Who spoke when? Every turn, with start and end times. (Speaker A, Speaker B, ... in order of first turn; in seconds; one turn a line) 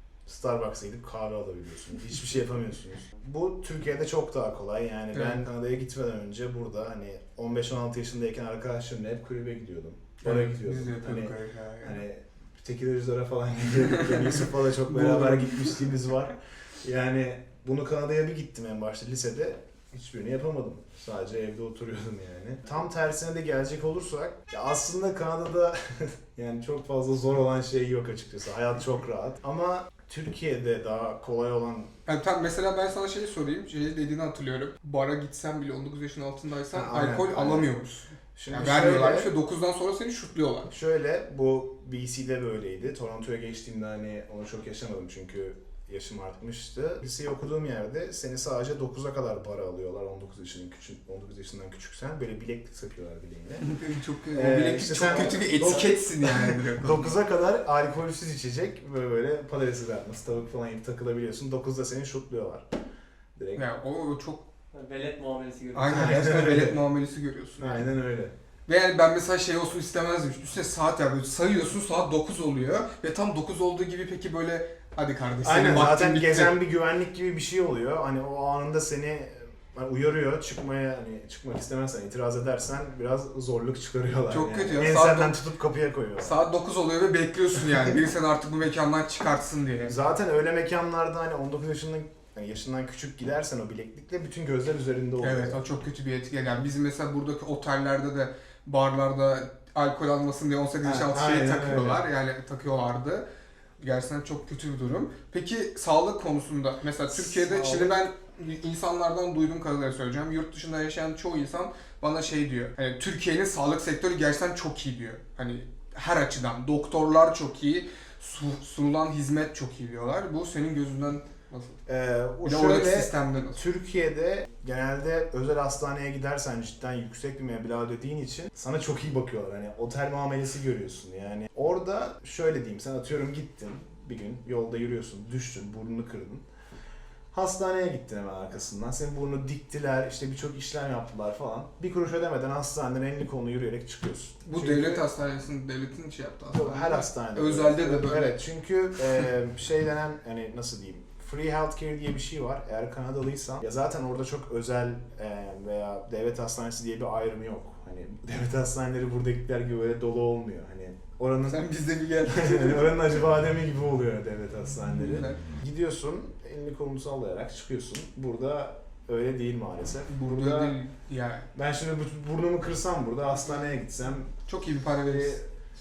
Speaker A: 0.2-31.9
Speaker B: 5.1-5.4
Speaker B: 10.2-12.0
Speaker B: 14.1-15.8
Speaker B: 32.0-40.7
Speaker A: 36.7-37.7
Speaker A: 38.4-39.3
Speaker A: 40.7-53.7
Speaker B: 53.6-57.1
Speaker A: 54.3-62.7
Speaker C: 54.9-55.9
Speaker A: 63.4-63.6
Speaker B: 63.5-64.4
Speaker C: 64.7-66.1
Speaker B: 65.7-67.8
Speaker A: 65.9-66.8
Speaker A: 67.6-68.3
Speaker B: 68.7-76.5
Speaker A: 75.4-86.4
Speaker B: 84.3-85.4
Speaker B: 86.2-90.0
Speaker A: 89.8-95.6
Speaker B: 95.2-103.2
Speaker A: 100.8-102.0
Speaker B: 103.8-121.8
Speaker A: 107.1-108.0
Speaker A: 121.9-136.4
Speaker B: 122.4-123.6
Speaker A: 137.3-145.0
Speaker B: 144.4-148.4
Speaker A: 146.5-161.7
Speaker B: 161.5-163.0
Speaker A: 162.2-170.8
Speaker B: 164.9-165.4
Speaker B: 170.1-171.5
Speaker A: 171.5-174.3
Speaker B: 174.4-175.4
Speaker A: 175.1-175.4